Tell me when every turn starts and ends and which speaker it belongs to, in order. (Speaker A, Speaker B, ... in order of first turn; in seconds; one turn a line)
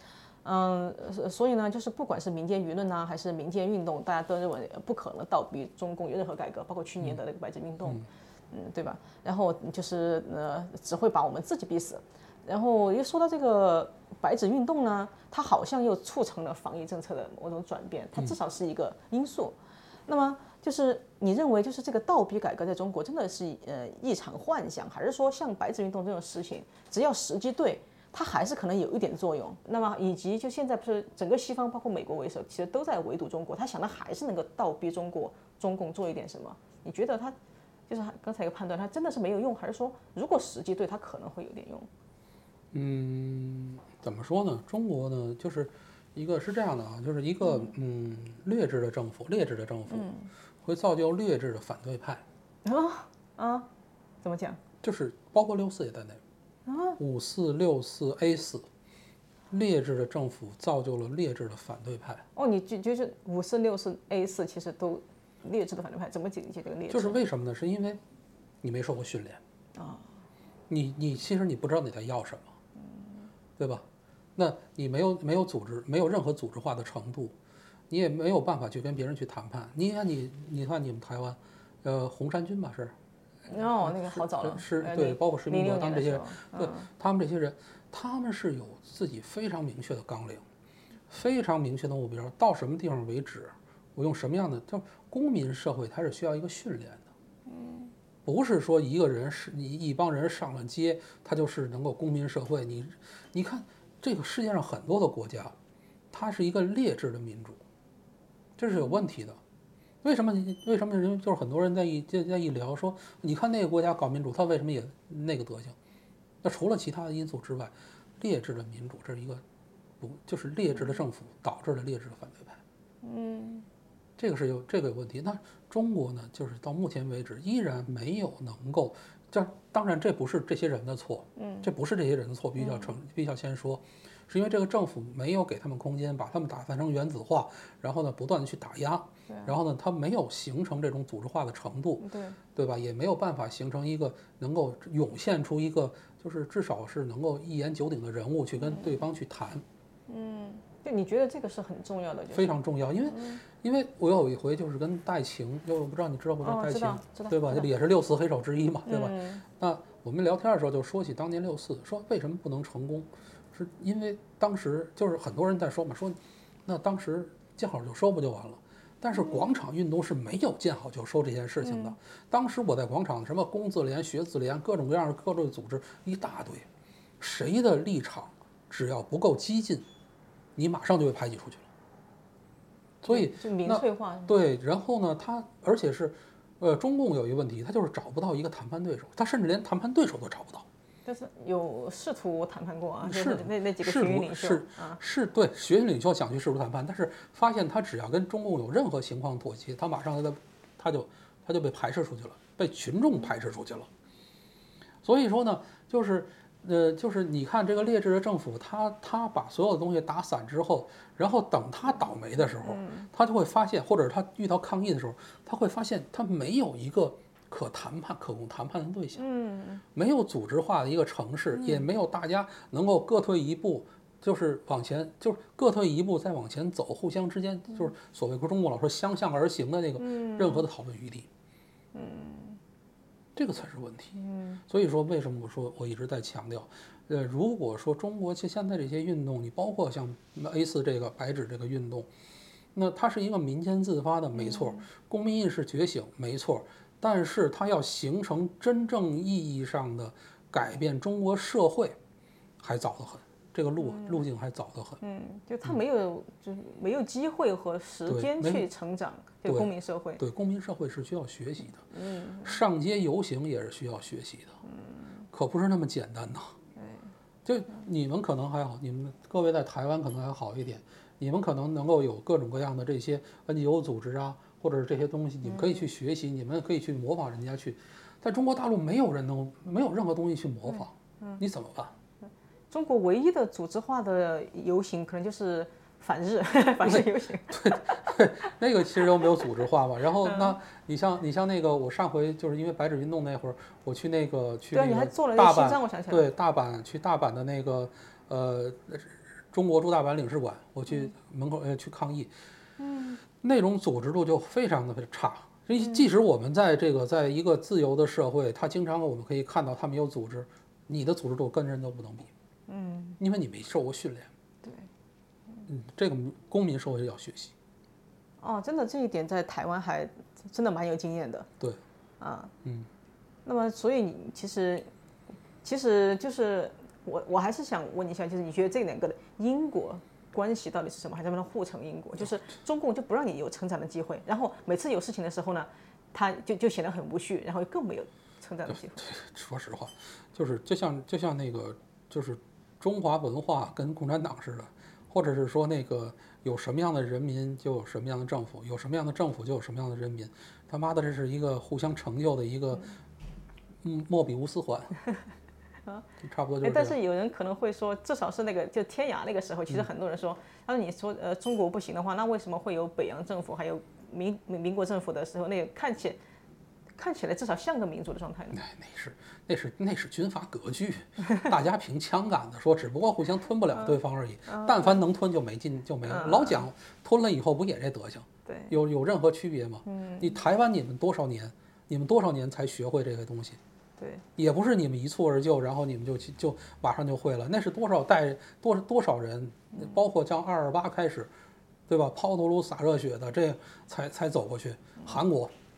Speaker A: 0.4-37.4
Speaker A: 37.9-41.9
Speaker B: 42.7-50.1
Speaker A: 47.4-47.7
Speaker A: 49.9-50.3
Speaker B: 50.6-52.2
Speaker A: 52.6-53.7
Speaker A: 54.2-54.6
Speaker B: 54.8-56.2
Speaker A: 56.6-57.0
Speaker B: 57.0-58.7
Speaker B: 59.5-62.2
Speaker A: 62.3-67.2
Speaker B: 66.9-68.0
Speaker B: 68.6-69.4
Speaker A: 69.7-70.1
Speaker B: 70.7-72.5
Speaker A: 72.8-73.3
Speaker B: 73.6-77.3
Speaker B: 77.9-82.9
Speaker A: 83.5-86.9
Speaker B: 83.8-90.4
Speaker B: 91.1-97.1
Speaker A: 97.5-97.9
Speaker B: 98.2-105.5
Speaker B: 106.1-107.6
Speaker B: 108.6-109.4
Speaker A: 108.8-109.0
Speaker B: 110.0-115.8
Speaker B: 116.4-119.4
Speaker B: 120.0-122.6
Speaker A: 123.0-123.7
Speaker B: 124.2-149.6
Speaker A: 131.3-131.7
Speaker A: 132.6-132.9
Speaker A: 139.3-139.6
Speaker A: 142.0-142.4
Speaker A: 148.6-149.0
Speaker A: 150.1-153.4
Speaker B: 152.3-176.7
Speaker A: 156.4-157.7
Speaker A: 158.8-159.4
Speaker A: 171.6-171.9
Speaker B: 177.2-179.8
Speaker B: 180.6-181.6
Speaker B: 183.0-190.7
Speaker A: 183.1-184.3
Speaker A: 191.1-195.0
Speaker B: 193.0-203.9
Speaker B: 205.0-219.2
Speaker A: 212.4-213.1
Speaker A: 219.2-219.8
Speaker B: 219.9-231.3
Speaker A: 221.5-221.8
Speaker A: 230.0-230.7
Speaker A: 231.9-232.6
Speaker B: 233.3-234.2
Speaker A: 234.2-234.6
Speaker B: 234.7-242.1
Speaker B: 242.7-252.0
Speaker A: 244.3-244.8
Speaker B: 252.6-255.0
Speaker A: 253.8-254.2
Speaker A: 255.0-260.2
Speaker B: 258.1-258.7
Speaker B: 259.4-261.8
Speaker A: 261.9-262.6
Speaker B: 262.4-264.6
Speaker A: 264.6-265.2
Speaker B: 265.3-266.5
Speaker A: 266.8-267.1
Speaker B: 267.4-281.9
Speaker A: 275.4-275.9
Speaker A: 280.7-281.4
Speaker A: 282.7-288.1
Speaker B: 286.8-302.3
Speaker A: 289.0-289.4
Speaker A: 290.2-290.6
Speaker A: 294.7-296.3
Speaker A: 302.8-303.2
Speaker B: 303.4-312.3
Speaker A: 312.7-313.2
Speaker B: 313.2-314.3
Speaker A: 314.6-314.9
Speaker B: 315.7-317.5
Speaker A: 318.4-321.5
Speaker A: 322.2-322.5
Speaker B: 322.6-322.9
Speaker A: 323.4-324.9
Speaker A: 325.6-339.1
Speaker B: 338.7-352.9
Speaker B: 353.8-354.9
Speaker B: 356.2-357.0
Speaker A: 356.6-366.2
Speaker A: 366.9-368.6
Speaker B: 368.5-383.6
Speaker A: 373.7-375.0
Speaker A: 376.1-376.6
Speaker A: 378.4-378.7
Speaker A: 379.9-380.4
Speaker A: 384.0-384.2
Speaker B: 384.4-391.3
Speaker A: 389.7-390.0
Speaker B: 391.9-395.5